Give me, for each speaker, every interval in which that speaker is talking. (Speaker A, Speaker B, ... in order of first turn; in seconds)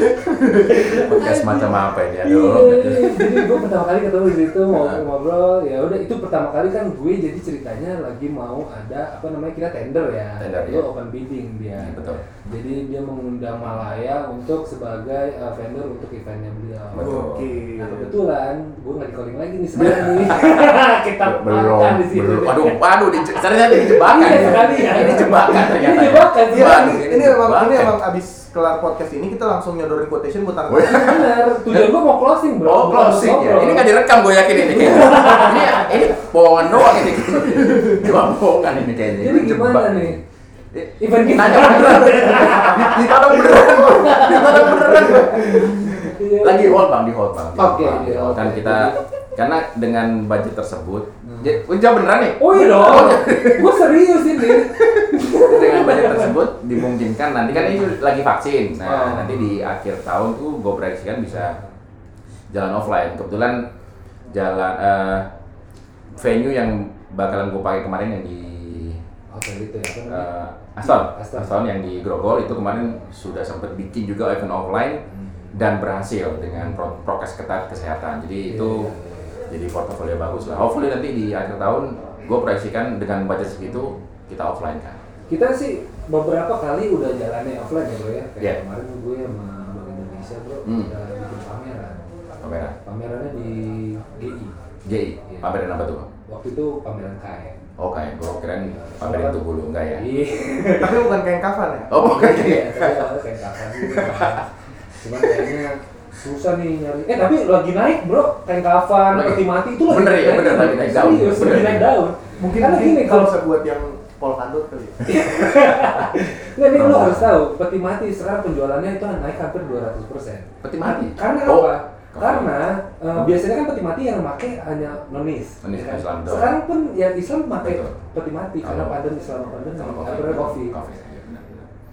Speaker A: 0.2-0.8, 17.0-18.1, 26.5-31.2, 37.5-38.0, 42.2-45.2, 100.8-102.0, 103.8-104.3, 112.4-115.0
Speaker B: 0.6-17.2, 17.7-22.8, 23.8-27.3, 30.8-33.9, 34.5-36.0, 39.2-40.2, 41.0-46.8, 47.6-49.0, 51.3-51.6, 52.4-56.3, 57.5-58.0, 58.8-59.7, 61.3-61.7, 69.3-70.3, 70.8-71.5, 75.1-75.5, 76.5-76.8, 78.4-79.4, 80.2-80.7, 83.6-84.0, 85.3-92.0, 92.8-94.5, 95.3-95.6, 96.3-97.6, 98.6-99.4, 100.0-101.1, 102.0-113.4, 115.0-130.8
Speaker C: 0.9-3.4, 4.7-5.0, 10.4-10.8, 11.7-12.3, 16.9-17.6, 19.7-28.0, 30.7-31.9, 32.6-53.8, 55.3-61.6, 62.5-63.6, 64.3-65.3, 66.1-69.0, 70.1-75.0, 75.5-78.9, 79.5-85.0, 90.6-90.9, 92.4-92.8, 94.8-96.1, 97.8-100.0, 101.9-102.8, 109.1-111.9, 116.7-117.4, 120.6-122.5, 123.1-123.4, 125.6-126.5, 127.6-128.0, 128.6-129.0, 129.7-131.7